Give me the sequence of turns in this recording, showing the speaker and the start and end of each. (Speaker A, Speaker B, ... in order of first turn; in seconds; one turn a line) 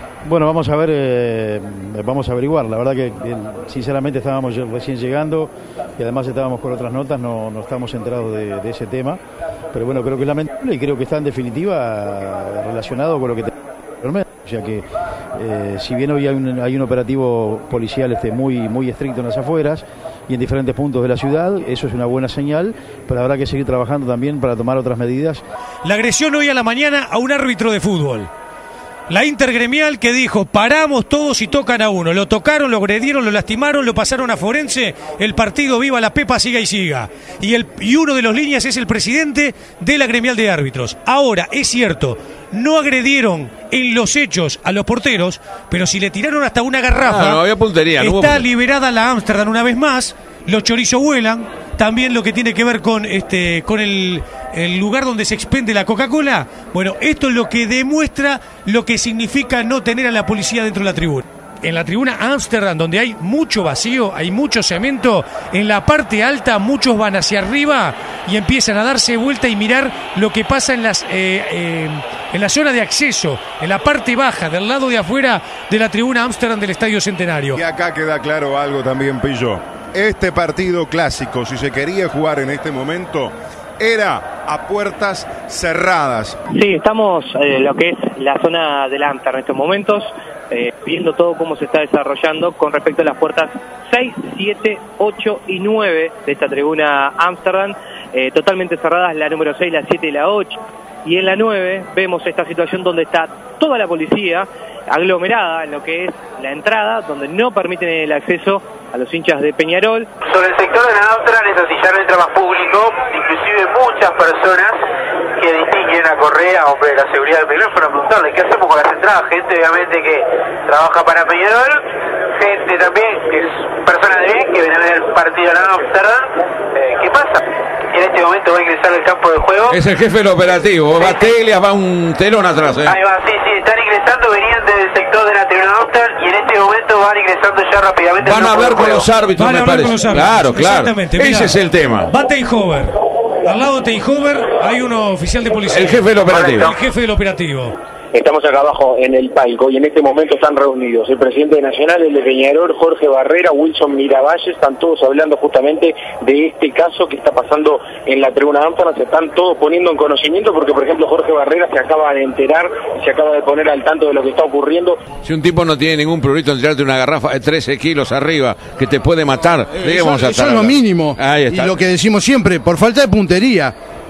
Speaker A: 0.2-9.2
Speaker A: 9.7-13.5
Speaker A: 14.0-14.8
Speaker A: 15.4-25.4
Speaker B: 25.8-28.3
Speaker B: 29.1-47.4
Speaker C: 47.1-48.4
Speaker B: 48.0-77.6
Speaker D: 77.5-86.4
Speaker E: 86.5-110.1
Speaker F: 110.2-114.8
Speaker F: 115.4-129.8
Speaker C: 129.7-132.9
Speaker F: 130.9-131.4
Speaker F: 132.8-139.1
Speaker C: 138.3-141.8
Speaker B: 139.3-142.9
Speaker B: 143.4-147.7
Speaker C: 145.7-146.6
Speaker G: 146.3-146.7
Speaker G: 148.1-165.0
Speaker C: 165.2-171.8
Speaker H: 169.8-173.7